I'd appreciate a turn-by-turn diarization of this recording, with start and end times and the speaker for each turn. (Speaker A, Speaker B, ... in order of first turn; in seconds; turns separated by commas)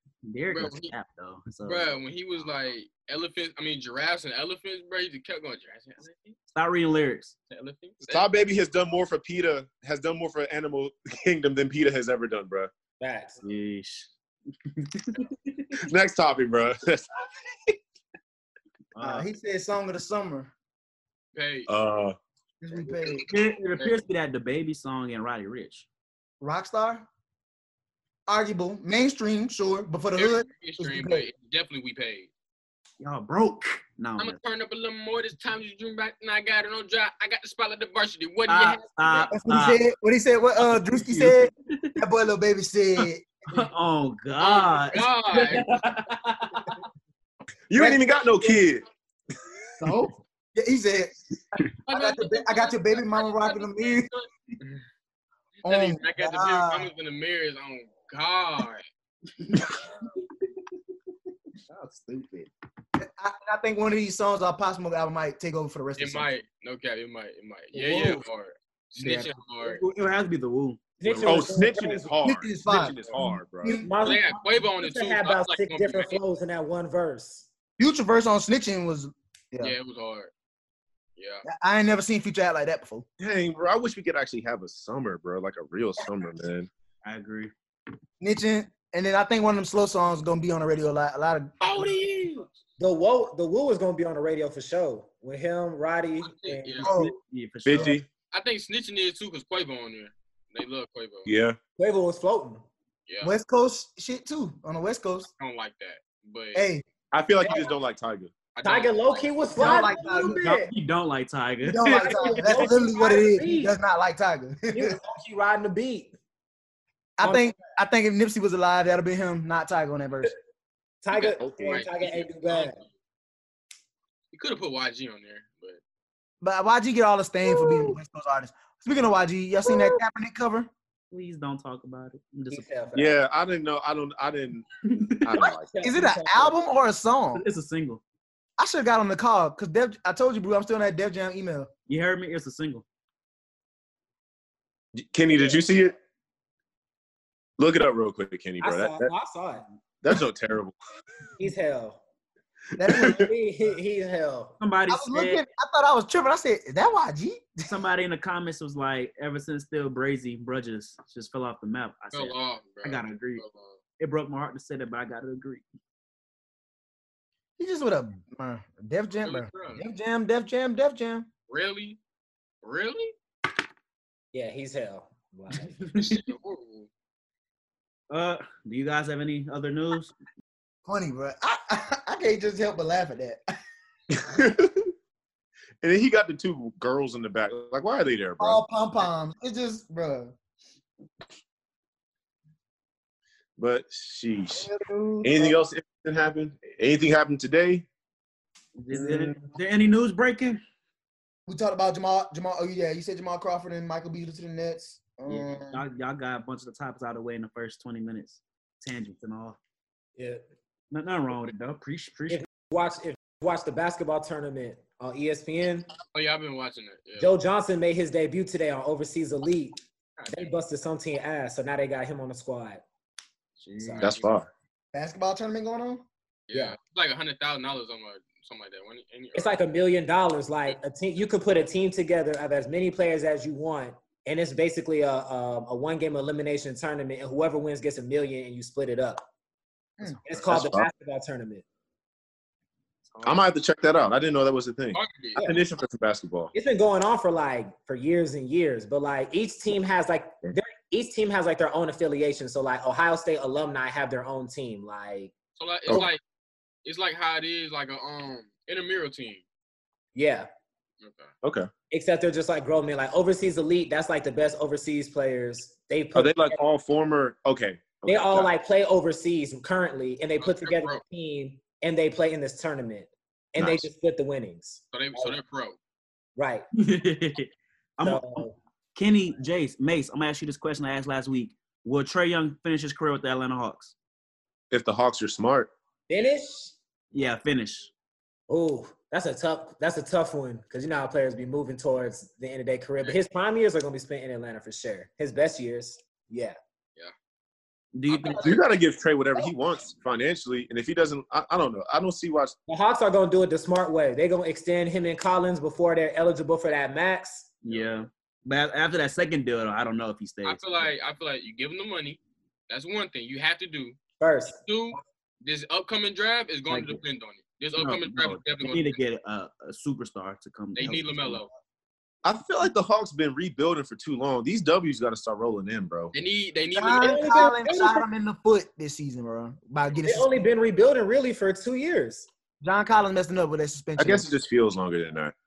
Speaker A: 0.2-2.0, Speaker B: 0.5-0.9, Speaker B: 1.7-6.4, Speaker A: 6.5-7.3, Speaker B: 7.5-8.3, Speaker C: 8.1-12.7, Speaker D: 13.0-13.4, Speaker A: 13.4-14.1, Speaker A: 14.7-15.7, Speaker C: 15.9-17.8, Speaker A: 18.9-19.3, Speaker E: 19.0-20.5, Speaker B: 21.3-21.7, Speaker C: 21.7-22.2, Speaker E: 22.6-23.3, Speaker A: 23.2-25.9, Speaker B: 23.7-24.0, Speaker E: 26.4-27.1, Speaker E: 28.3-31.3, Speaker B: 30.2-32.3, Speaker A: 33.0-34.4, Speaker B: 34.2-39.3, Speaker A: 38.5-39.8, Speaker E: 39.3-43.6, Speaker A: 40.6-42.0, Speaker A: 43.0-46.8, Speaker B: 44.4-45.8, Speaker C: 47.7-48.8, Speaker E: 47.8-48.6, Speaker E: 49.8-51.2, Speaker E: 51.9-54.1, Speaker B: 51.9-54.8, Speaker B: 55.6-58.9, Speaker E: 55.6-56.9, Speaker A: 59.5-59.9, Speaker A: 61.7-62.5, Speaker E: 63.0-66.3, Speaker B: 66.0-69.8, Speaker E: 67.8-68.2, Speaker A: 69.0-71.7, Speaker D: 71.0-72.1, Speaker C: 71.2-73.8, Speaker E: 72.2-73.9, Speaker D: 73.7-77.5, Speaker B: 74.0-76.2, Speaker E: 77.8-79.7, Speaker B: 79.6-80.3, Speaker B: 81.2-81.4, Speaker E: 81.5-83.0, Speaker C: 83.2-86.7, Speaker A: 87.0-87.5, Speaker E: 88.2-91.5, Speaker B: 91.6-92.5, Speaker D: 92.8-96.9, Speaker B: 96.2-97.0, Speaker E: 96.8-97.2, Speaker A: 96.8-98.0, Speaker C: 97.7-98.1, Speaker B: 98.3-101.3, Speaker C: 101.3-101.6, Speaker D: 101.8-102.7, Speaker B: 103.1-103.3, Speaker E: 103.2-105.3, Speaker B: 105.3-106.7, Speaker E: 106.5-106.8, Speaker C: 107.1-108.3, Speaker D: 107.4-107.7, Speaker B: 108.5-109.6, Speaker D: 108.6-110.7, Speaker E: 109.6-110.6, Speaker A: 110.3-112.7, Speaker E: 111.7-115.0, Speaker D: 112.0-113.8, Speaker D: 114.7-116.2, Speaker E: 117.2-120.3, Speaker D: 117.2-117.5, Speaker D: 121.0-122.8, Speaker B: 121.1-122.8, Speaker C: 121.4-121.7, Speaker B: 124.3-125.8, Speaker E: 126.4-130.7, Speaker A: 131.1-132.7, Speaker D: 132.5-133.2, Speaker C: 132.9-134.7, Speaker A: 134.8-135.3, Speaker C: 135.2-135.7, Speaker D: 135.4-136.6, Speaker E: 135.8-137.4, Speaker A: 137.3-138.0, Speaker E: 138.6-141.7, Speaker A: 141.9-142.8, Speaker C: 145.0-145.9, Speaker C: 147.6-149.1, Speaker D: 148.6-149.7, Speaker C: 150.0-150.8, Speaker D: 151.4-152.0, Speaker E: 152.8-153.3, Speaker C: 152.9-153.2, Speaker D: 153.0-154.6, Speaker A: 154.6-155.4, Speaker E: 154.9-157.7, Speaker A: 157.7-163.4, Speaker B: 162.1-163.8, Speaker A: 164.0-165.6, Speaker E: 167.6-171.3, Speaker B: 169.2-169.8, Speaker B: 171.5-172.0, Speaker B: 172.6-173.1, Speaker D: 174.3-175.8, Speaker A: 175.8-176.2, Speaker B: 175.9-176.9, Speaker A: 178.1-180.2, Speaker E: 180.9-183.4, Speaker C: 184.2-184.9, Speaker C: 185.8-188.6, Speaker E: 188.4-190.3, Speaker C: 193.6-194.7, Speaker E: 194.6-195.6, Speaker C: 195.2-197.9, Speaker A: 198.8-200.6, Speaker E: 198.9-199.2, Speaker E: 201.5-205.8, Speaker A: 205.3-209.6, Speaker D: 210.2-210.4, Speaker A: 210.9-212.4, Speaker D: 212.3-215.9, Speaker B: 216.1-217.3, Speaker D: 217.2-219.8, Speaker B: 220.2-220.5, Speaker D: 220.3-222.8, Speaker A: 223.6-224.1, Speaker D: 223.8-224.1, Speaker B: 223.9-224.4, Speaker C: 224.0-224.5, Speaker E: 224.9-226.1, Speaker B: 226.5-229.6, Speaker D: 229.3-239.2, Speaker D: 240.2-241.6, Speaker C: 240.4-240.9, Speaker A: 243.1-243.4, Speaker C: 243.2-246.5, Speaker B: 244.9-245.5, Speaker D: 245.4-245.7, Speaker D: 246.5-255.3, Speaker B: 255.6-256.2, Speaker B: 256.9-259.4, Speaker D: 260.1-260.5, Speaker B: 261.0-261.3, Speaker C: 261.4-261.7, Speaker D: 261.9-266.6, Speaker C: 266.1-268.5, Speaker D: 268.1-275.4, Speaker B: 270.4-271.0, Speaker C: 273.6-273.9, Speaker B: 274.9-275.8, Speaker D: 276.4-276.7, Speaker A: 276.8-283.9, Speaker D: 278.0-278.6, Speaker C: 284.7-285.7, Speaker D: 286.1-286.8, Speaker A: 287.1-287.9, Speaker D: 288.5-296.6, Speaker A: 297.9-298.6, Speaker B: 298.1-298.4, Speaker C: 298.4-302.6, Speaker D: 302.7-307.6, Speaker A: 307.6-310.6, Speaker B: 310.4-319.0, Speaker D: 314.2-314.6, Speaker A: 316.7-317.0, Speaker A: 317.8-321.4, Speaker B: 320.8-321.5, Speaker C: 322.2-326.1, Speaker B: 326.1-327.5, Speaker E: 326.7-330.4, Speaker D: 327.0-328.1, Speaker D: 330.0-332.3, Speaker E: 332.6-334.3, Speaker C: 334.0-335.3